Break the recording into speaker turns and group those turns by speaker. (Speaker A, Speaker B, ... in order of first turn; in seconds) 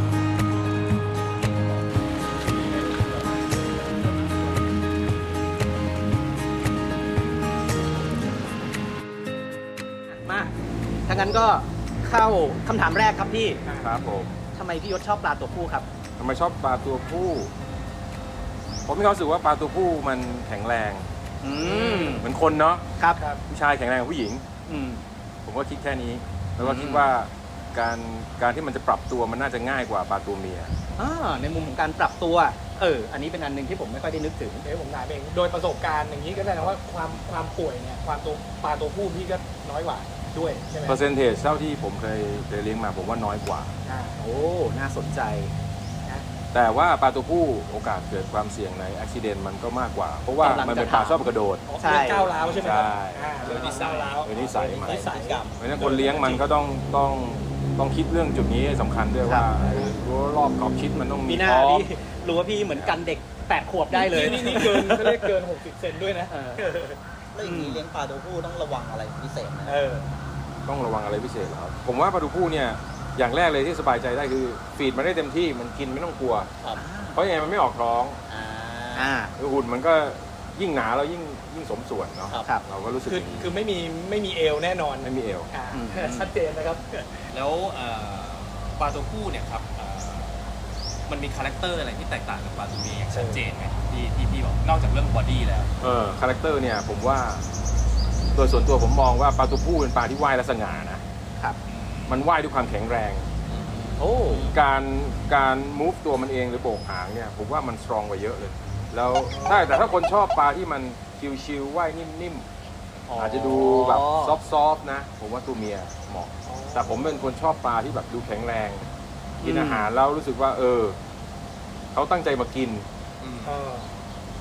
Speaker A: 10.1-10.5, 11.1-13.6, 14.5-15.8, 21.4-22.2, 24.7-25.0, 26.6-27.1, 31.0-34.6, 44.2-45.5, 50.4-51.2, 51.8-52.3, 59.2-59.5, 61.2-65.2, 66.3-66.7, 67.4-67.8, 76.8-77.2, 78.9-79.3, 85.7-86.3, 104.0-104.5, 113.1-114.4, 119.4-119.9
Speaker B: 13.6-13.9, 34.6-41.0, 43.8-44.2, 51.7-55.4, 56.0-56.4, 59.7-60.0, 63.9-67.0, 69.6-70.0, 83.0-87.3, 93.1-93.4, 109.3-109.7, 116.5-117.1, 123.4-123.9
Speaker C: 13.8-14.3, 16.2-17.5, 18.9-21.1, 21.6-22.8, 23.5-24.4, 25.4-30.7, 40.8-43.7, 46.5-51.6, 52.4-55.0, 55.6-61.9, 62.7-62.9, 70.7-76.5, 77.1-78.2, 79.4-83.5, 85.0-85.5, 95.8-97.5, 98.3-101.0, 102.1-103.3, 104.4-112.5, 113.2-118.9, 119.4-121.0, 121.9-122.8
Speaker D: 53.4-54.2, 87.3-90.4, 91.1-95.7, 101.7-102.2, 103.5-104.5, 123.2-123.6
Speaker E: 53.5-55.9, 67.3-69.8, 78.3-79.1